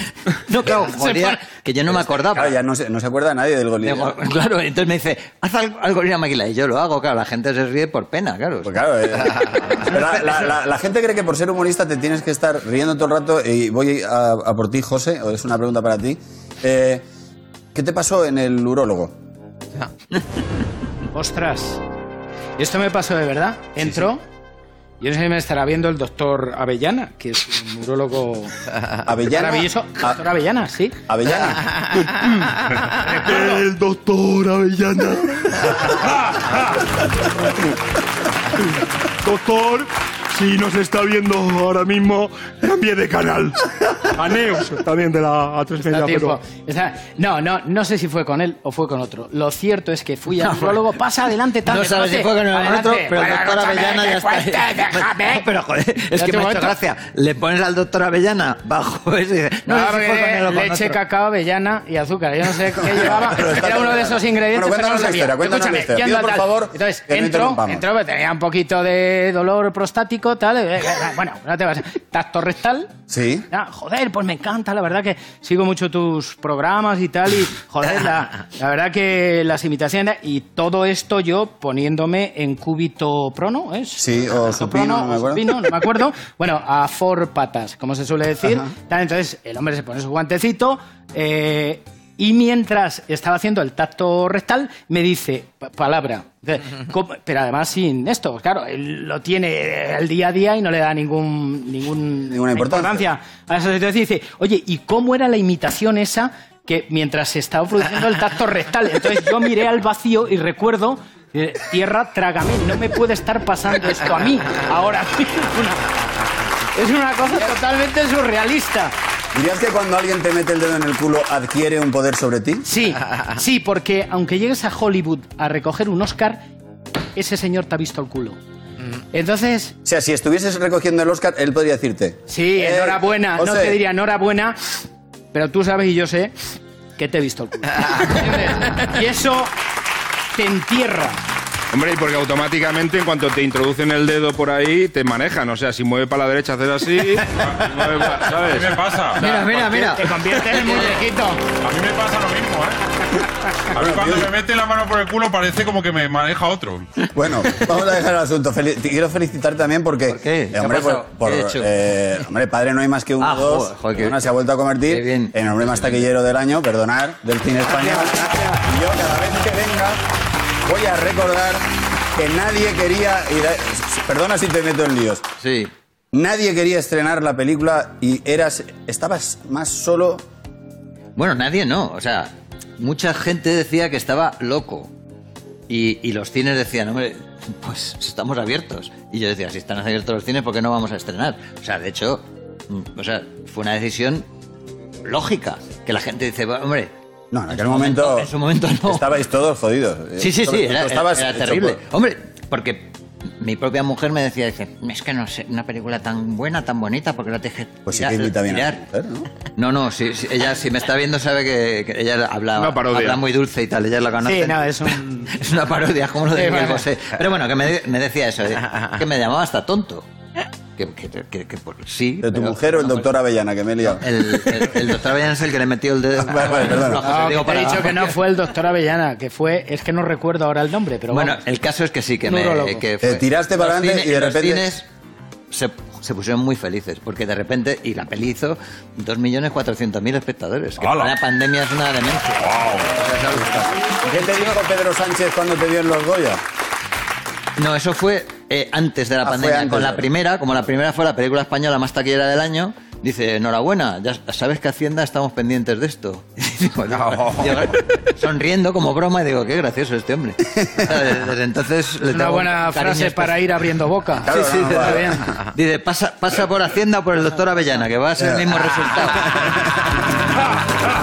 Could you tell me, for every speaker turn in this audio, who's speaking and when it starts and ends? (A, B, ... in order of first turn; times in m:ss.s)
0:00.3-0:02.6 A
0:00.9-0:01.4 B
0:02.1-0:04.1 C
0:03.8-0:10.4 A
0:08.6-0:17.0 C
0:17.7-0:19.1 C
0:21.1-0:21.8 B
0:22.6-0:24.2 B
0:23.8-0:24.1 C
0:25.0-0:28.5 B
0:29.0-0:30.2 C
0:29.3-0:31.0 B
0:31.1-0:31.8 C
0:33.0-0:33.6 B
0:33.3-0:35.8 D
0:39.2-0:39.8 D
0:40.4-0:43.6 D
0:44.2-0:46.4 D
0:45.8-0:55.4 B
0:50.4-0:50.9 A
0:51.7-1:01.0 A
0:56.2-0:56.8 B
0:59.7-1:12.9 B
1:02.9-1:07.8 C
1:13.1-1:13.5 C
1:13.5-1:56.1 B
1:24.0-1:25.6 C
1:42.3-1:43.0 C
1:56.7-1:58.9 B
1:59.3-2:02.7 C
2:02.6-2:06.5 B
2:07.2-2:08.4 B
2:09.1-2:09.8 B
2:09.8-2:13.8 C
2:12.3-2:14.7 B
2:15.3-2:16.3 B
2:17.0-2:19.5 B
2:20.4-2:21.2 B
2:21.7-2:28.9 E
2:27.4-2:27.7 F
2:28.4-2:29.2 F
2:29.2-2:31.0 A
2:29.2-2:31.4 B
2:31.6-2:32.8 F
2:33.7-2:36.9 F
2:33.7-2:34.3 C
2:37.1-2:50.0 C
2:40.1-2:41.7 A
2:43.2-2:44.3 A
2:44.9-2:46.1 A
2:50.6-2:55.2 C
2:55.4-2:55.7 A
2:56.1-3:00.2 C
3:01.2-3:04.9 A
3:05.7-3:14.3 A
3:15.0-3:16.9 A
3:17.3-3:18.3 C
3:17.5-3:19.1 A
3:18.8-3:21.8 C
3:20.2-3:28.8 A
3:27.9-3:29.3 C
3:29.5-3:40.0 A
3:32.6-3:33.2 E
3:34.2-3:35.3 B
3:36.3-3:36.9 B
3:40.8-3:43.1 A
3:42.2-3:44.7 C
3:44.0-3:48.2 A
3:46.2-3:47.2 C
3:47.0-3:51.4 B
3:51.1-3:54.9 A
3:52.3-3:52.8 B
3:53.0-3:54.6 C
3:55.5-4:04.5 A
4:00.8-4:01.2 F
4:02.4-4:03.0 F
4:04.0-4:06.4 C
4:07.6-4:23.4 A
4:09.2-4:10.1 C
4:17.1-4:17.5 F
4:22.1-4:25.3 B
4:24.2-4:25.2 C
4:24.3-4:29.8 A
4:28.2-4:28.6 C